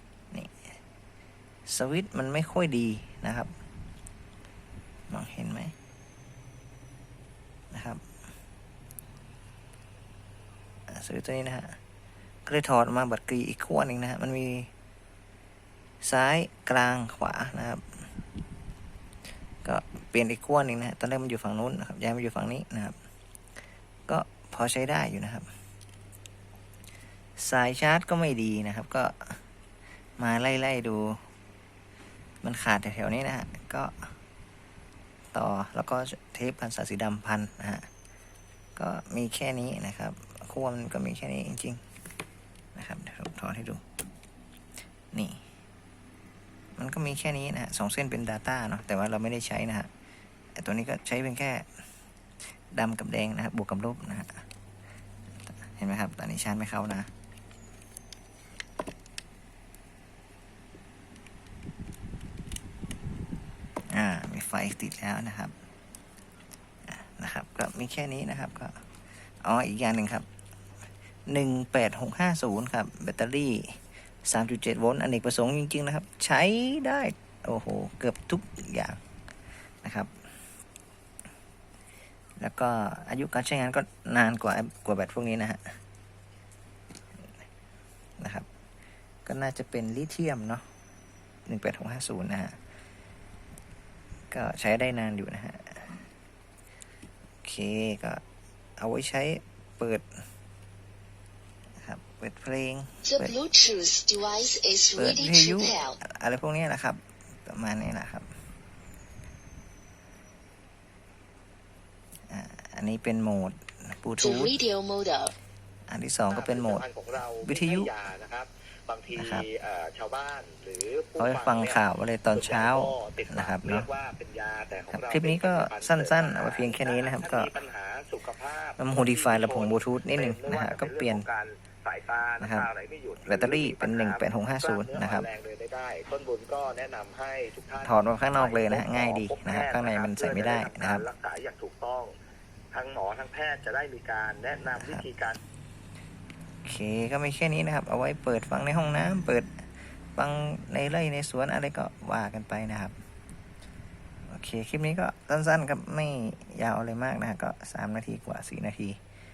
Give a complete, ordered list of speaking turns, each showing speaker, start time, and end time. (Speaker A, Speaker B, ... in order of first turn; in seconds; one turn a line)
Speaker A: 0.3-0.6
Speaker A: 1.7-3.5
Speaker A: 5.1-5.7
Speaker A: 7.7-8.0
Speaker A: 10.9-11.8
Speaker A: 12.4-14.7
Speaker A: 16.0-17.9
Speaker A: 19.6-22.9
Speaker A: 24.1-25.5
Speaker A: 27.4-29.4
Speaker A: 30.2-31.2
Speaker A: 32.4-34.1
Speaker A: 35.3-37.9
Speaker A: 38.8-41.8
Speaker A: 42.7-43.8
Speaker A: 45.1-45.4
Speaker A: 46.8-49.9
Speaker A: 50.5-51.7
Speaker A: 52.7-54.4
Speaker A: 55.5-57.1
Speaker A: 63.9-65.5
Speaker A: 66.8-68.8
Speaker A: 69.4-70.3
Speaker A: 71.3-79.0
Speaker A: 79.8-80.1
Speaker A: 82.4-85.8
Speaker A: 88.2-88.5
Speaker A: 89.2-90.6
Speaker A: 91.5-92.6
Speaker A: 94.3-95.9
Speaker A: 97.4-98.2
Speaker A: 98.8-100.1
Speaker A: 101.8-103.4
Speaker B: 103.0-106.0
Speaker A: 105.0-108.3
Speaker A: 112.3-114.6
Speaker B: 114.2-115.3
Speaker A: 115.9-116.8
Speaker C: 116.3-142.1
Speaker A: 117.4-117.9
Speaker A: 119.1-119.5
Speaker A: 121.2-123.9
Speaker A: 124.9-127.5
Speaker A: 128.8-131.2
Speaker A: 132.4-132.7
Speaker A: 133.2-135.3
Speaker A: 137.8-141.0
Speaker C: 142.7-145.4
Speaker A: 144.8-145.0
Speaker A: 146.6-152.9
Speaker A: 154.2-159.0